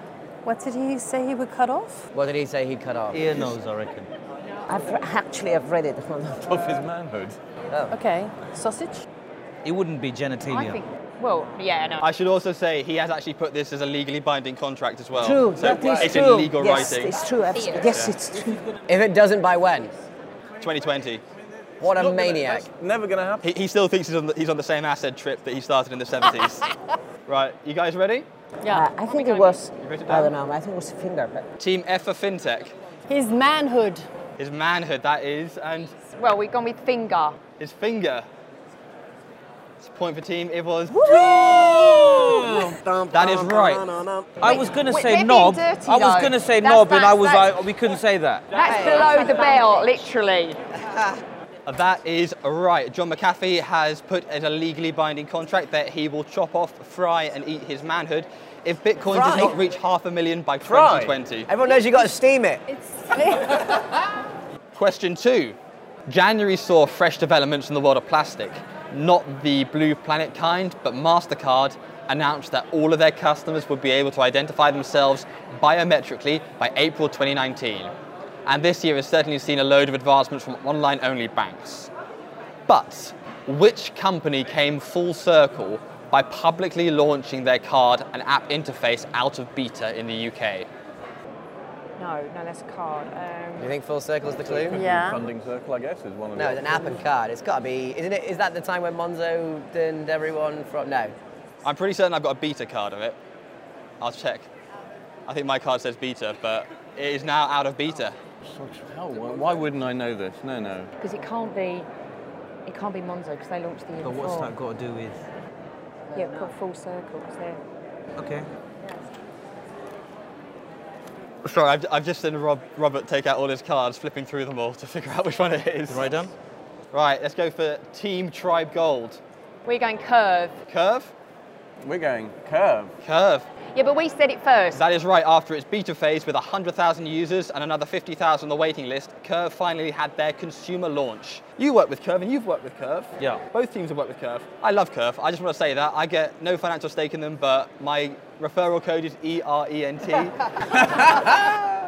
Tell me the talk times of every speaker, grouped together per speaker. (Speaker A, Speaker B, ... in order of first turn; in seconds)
Speaker A: 0.5-2.0, 7.9-9.0, 28.6-29.6, 33.1-34.0, 63.0-63.8, 94.8-95.2
Speaker B: 2.1-3.2, 18.9-19.9, 21.8-22.7, 41.0-44.3, 48.7-49.0, 50.8-51.2, 59.1-59.6, 61.5-62.6, 93.6-94.9, 96.4-101.2
Speaker C: 3.1-4.1, 9.6-10.8, 44.4-48.5, 114.0-115.2, 118.2-118.5, 125.9-126.3
Speaker D: 4.7-6.7, 15.1-18.6, 28.7-31.5, 49.3-49.8
Speaker E: 6.5-7.4, 21.8-23.4, 60.6-61.2, 94.3-97.0, 108.5-110.9, 131.8-132.9
Speaker F: 10.5-12.1, 17.6-17.9, 36.1-37.4, 44.4-47.5, 48.5-50.6, 92.0-93.7, 111.0-111.9, 112.7-114.5, 116.1-117.6, 129.7-130.6, 133.7-134.8
Speaker G: 12.0-17.1, 20.6-21.2, 23.4-26.6, 27.3-28.3, 29.8-30.3, 31.6-32.7, 34.4-36.0, 37.6-38.3, 39.8-41.1, 43.1-43.9, 51.7-61.5, 64.8-65.6, 66.1-77.9, 78.5-81.9, 82.7-90.7, 101.6-103.2, 104.0-104.5, 105.3-108.2, 121.4-126.1, 126.9-129.2, 130.7-131.1, 133.0-133.5, 134.7-151.3